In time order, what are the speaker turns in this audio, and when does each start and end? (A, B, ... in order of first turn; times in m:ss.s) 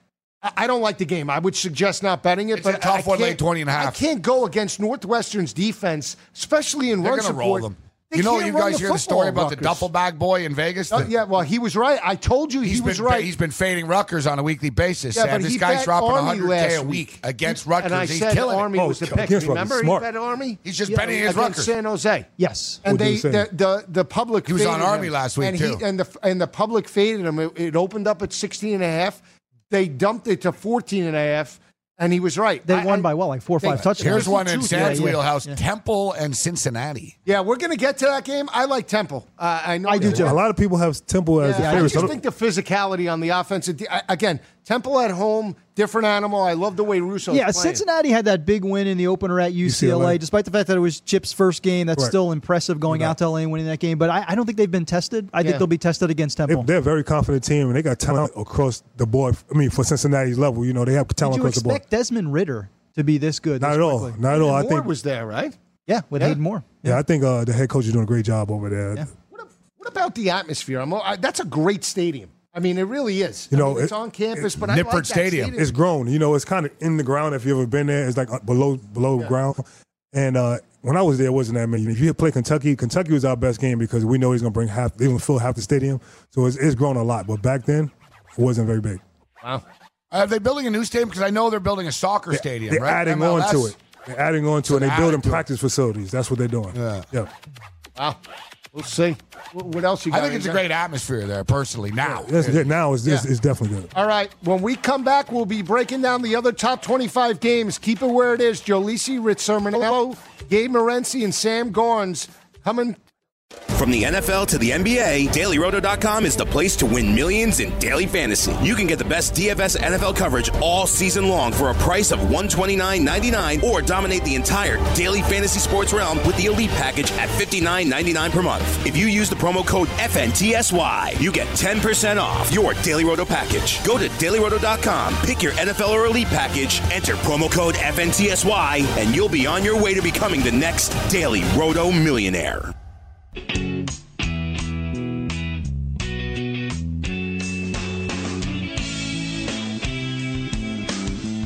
0:00.4-0:09.8 A
0:02.5-0:04.0 B
0:07.0-0:11.1 B
0:10.9-0:13.3 A
0:12.6-0:18.7 B
0:15.2-0:22.3 A
0:18.8-0:20.1 C
0:20.6-0:21.7 B
0:20.9-0:21.1 D
0:22.4-0:22.8 D
0:22.8-0:33.1 A
0:22.8-0:23.5 C
0:24.5-0:25.8 B
0:32.7-0:35.6 D
0:33.6-0:35.1 A
0:33.9-0:37.2 B
0:37.3-0:40.4 A
0:39.9-0:40.4 D
0:40.0-0:42.2 C
0:41.4-0:47.8 A
0:41.5-0:42.1 D
0:47.3-0:56.7 D
0:49.6-0:50.2 C
0:52.9-0:53.2 C
0:56.5-1:01.8 C
1:01.2-1:04.2 D
1:03.6-1:04.9 C
1:04.3-1:05.6 A
1:05.9-1:07.0 D
1:06.8-1:09.1 C
1:09.3-1:15.7 A
1:13.5-1:14.4 C
1:14.6-1:15.6 B
1:15.5-1:29.0 C
1:30.1-1:33.7 B
1:32.3-1:37.3 C
1:34.7-1:35.4 B
1:36.8-1:37.0 B
1:38.7-1:40.6 A
1:40.1-1:42.6 B
1:42.1-1:43.9 C
1:43.9-1:53.0 A
1:53.7-2:22.7 E